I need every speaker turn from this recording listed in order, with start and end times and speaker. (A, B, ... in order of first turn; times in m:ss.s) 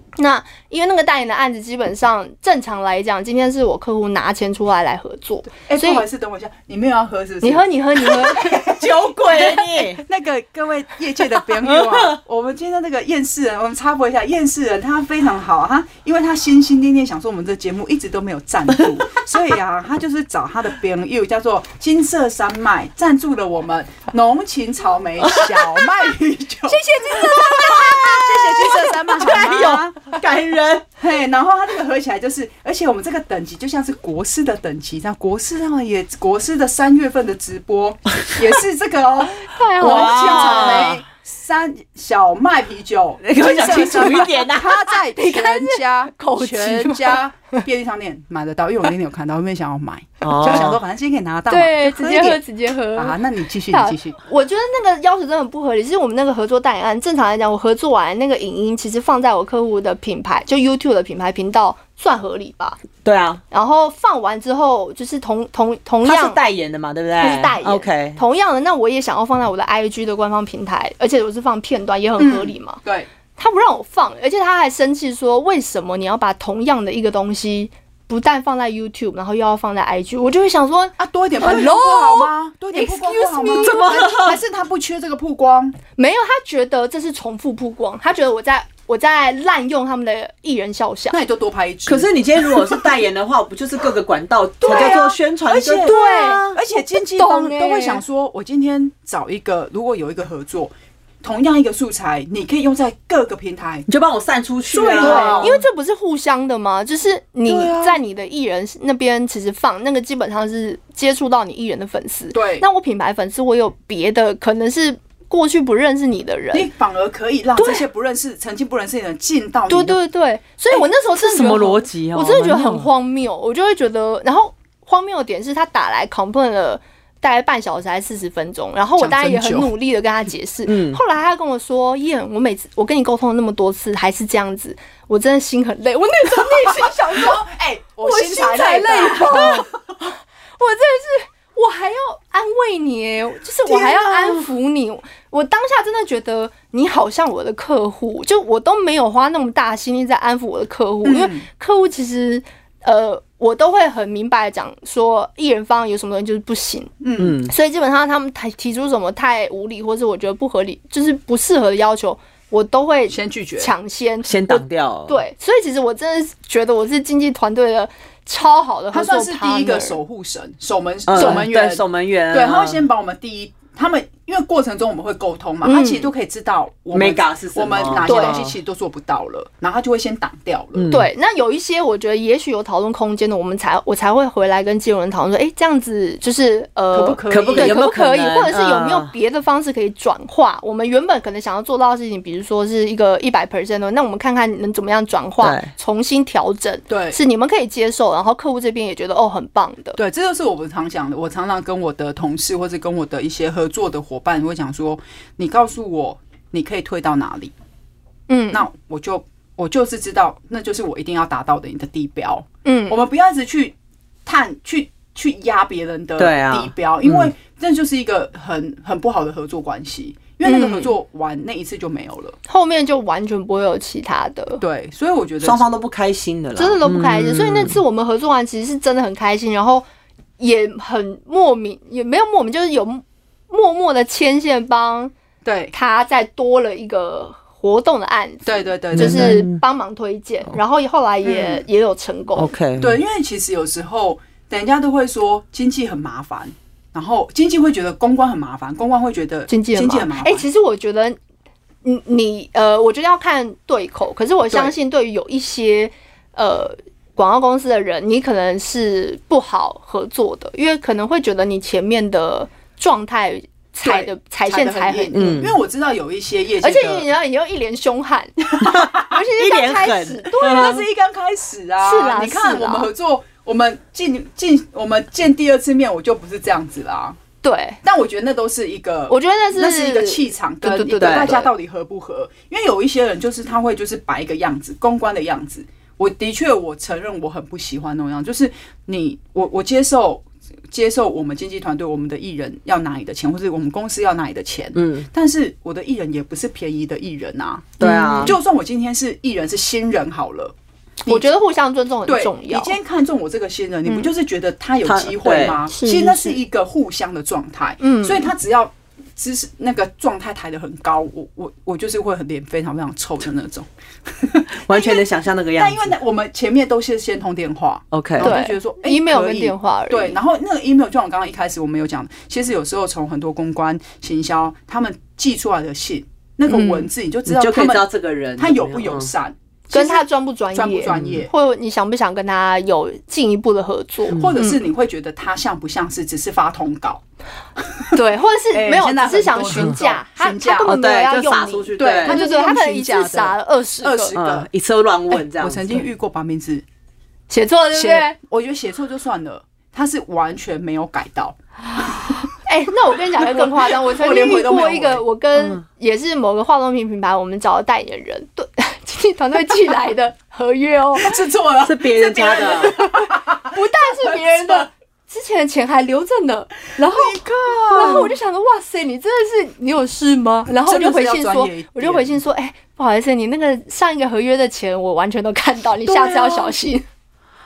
0:00.2-0:06.0 A
0:05.6-0:30.1 B
0:07.4-0:08.6 A
0:08.3-0:10.0 C
0:11.5-0:12.2 C
0:25.2-0:25.6 C
0:26.7-0:28.9 A
0:27.1-0:30.8 C
0:31.0-0:52.4 B
0:39.4-0:41.0 A
0:39.8-0:41.0 C
0:43.2-0:44.8 C
0:45.1-0:47.2 A
0:50.2-0:50.8 C
0:50.4-0:50.7 A
0:51.5-0:53.2 A
0:53.0-0:54.2 B
0:53.7-1:02.8 A
1:03.0-1:03.4 C
1:03.5-1:06.4 A
1:06.0-1:08.2 C
1:07.2-1:12.8 A
1:12.2-1:13.1 B
1:13.4-1:23.9 A
1:21.0-1:25.8 B
1:23.6-1:24.4 C
1:26.0-1:31.2 A
1:31.1-1:32.6 B
1:31.8-1:36.6 C
1:34.6-1:35.1 A
1:34.6-1:40.7 B
1:35.8-1:38.0 A
1:41.2-1:43.9 B
1:43.9-1:45.6 C
1:44.7-1:45.6 B
1:44.9-1:56.7 A
1:47.5-1:48.0 B
1:52.3-1:52.6 B
1:56.5-2:00.0 B
1:57.6-1:57.8 A
1:59.7-2:17.4 A
2:01.1-2:02.9 C
2:09.0-2:09.7 B
2:10.6-2:11.0 C
2:16.4-2:19.7 B
2:18.0-2:36.9 A
2:23.6-2:24.5 B
2:31.0-2:31.4 B
2:37.0-2:37.4 B
2:37.2-2:37.5 C
2:37.5-2:50.0 A
2:43.1-2:43.7 B
2:44.2-2:45.2 C
2:48.9-3:00.9 B
2:51.1-2:52.8 C
2:51.2-2:51.5 A
2:55.6-2:56.1 A
2:56.9-2:58.6 C
2:58.0-2:58.4 A
3:00.7-3:01.1 C
3:00.9-3:20.0 A
3:06.9-3:07.9 B
3:07.3-3:09.1 C
3:15.4-3:15.7 C
3:16.9-3:17.2 B
3:20.0-3:27.5 B
3:28.3-3:28.6 A
3:28.5-3:33.7 B
3:32.6-3:33.0 A
3:34.2-3:42.4 B
3:36.2-3:37.3 C
3:40.4-3:40.9 A
3:42.5-3:44.6 A
3:44.6-3:45.6 B
3:45.4-3:47.8 C
3:46.6-3:49.8 A
3:50.4-3:55.1 A
3:55.4-3:55.7 B
3:55.7-4:02.5 A
3:58.4-3:59.4 B
3:58.9-3:59.6 C
4:01.2-4:01.6 B
4:02.4-4:03.0 C
4:02.8-4:10.4 B
4:09.5-4:11.2 A
4:11.8-4:25.4 A
4:23.8-4:27.1 B
4:25.1-4:25.6 C
4:26.6-4:30.8 A
4:28.6-4:29.0 B
4:28.6-4:30.8 C
4:30.4-4:37.2 B
4:31.8-4:32.9 A
4:37.4-4:37.8 A
4:37.8-5:00.5 B
4:39.1-4:41.5 A
4:41.0-4:41.4 C
4:54.7-4:55.1 C
4:57.8-4:58.4 A
4:57.8-4:58.4 C
5:01.0-5:01.3 B
5:01.1-5:02.8 A
5:02.0-5:15.0 B
5:04.8-5:05.6 C
5:05.7-5:06.4 A
5:07.8-5:08.3 A
5:14.5-5:15.9 C
5:15.6-5:31.3 B
5:17.9-5:18.3 C
5:18.2-5:20.2 A
5:26.5-5:26.8 A
5:27.2-5:29.1 C
5:29.7-5:34.6 A
5:30.9-5:31.3 C
5:34.1-5:37.0 B
5:37.7-5:38.0 B
5:37.9-5:44.2 A
5:38.5-5:40.7 B
5:39.5-5:39.8 C
5:40.6-5:42.2 C
5:41.8-5:44.5 B
5:44.1-5:45.9 C
5:45.1-5:46.6 B
5:47.3-5:48.1 A
5:47.7-5:51.9 B
5:52.4-6:01.2 A
5:53.2-5:55.0 B
5:55.4-5:55.6 C
6:01.0-6:04.7 B
6:01.6-6:02.8 C
6:02.6-6:07.2 A
6:06.8-6:08.2 B
6:07.7-6:16.8 A
6:10.5-6:12.2 B
6:15.9-6:16.5 B